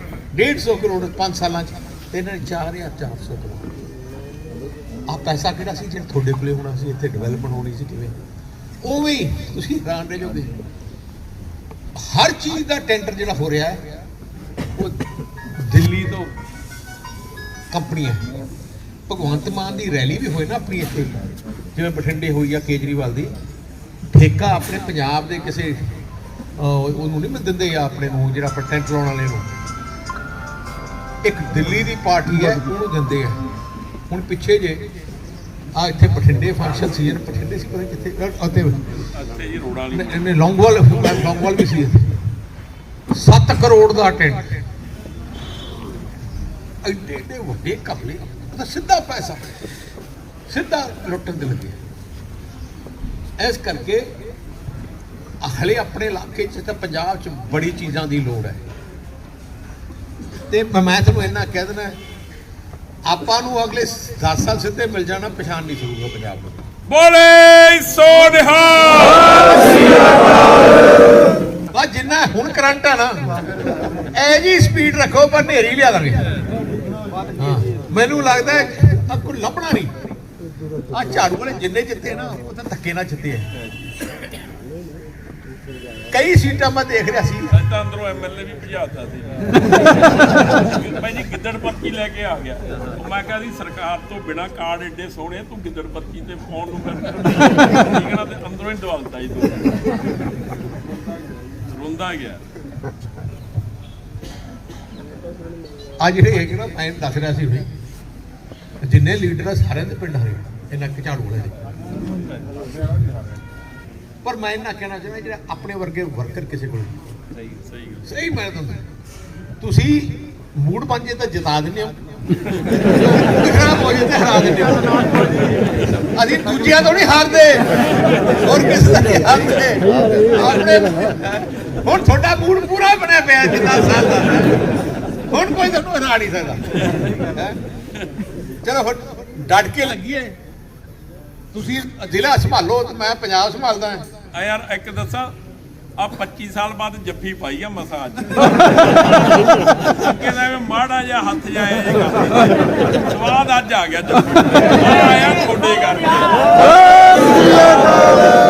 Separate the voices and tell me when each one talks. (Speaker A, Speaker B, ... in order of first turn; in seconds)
Speaker A: 0.3-3.7, 5.1-8.2, 8.8-10.6, 11.9-13.9, 14.8-16.3, 17.7-18.2, 19.1-21.2, 21.7-23.4, 24.1-26.0, 26.6-29.6, 31.2-33.4, 34.1-34.8, 35.8-38.9, 39.9-42.1, 43.1-44.6, 46.8-49.5, 50.5-51.8, 53.4-54.1, 55.4-58.6, 60.5-62.0, 63.1-66.6, 71.7-73.4, 74.0-76.2, 77.4-80.0, 80.9-83.5, 86.1-87.5, 106.0-107.7, 108.8-111.6, 114.2-117.0, 118.0-118.8, 119.6-122.0, 122.8-125.2, 125.9-134.8, 135.3-137.6, 138.6-140.4, 141.5-144.1
Speaker B: 39.2-40.5, 66.9-70.1, 87.5-100.0, 101.6-102.4, 117.3-118.1, 144.3-145.3, 146.0-158.1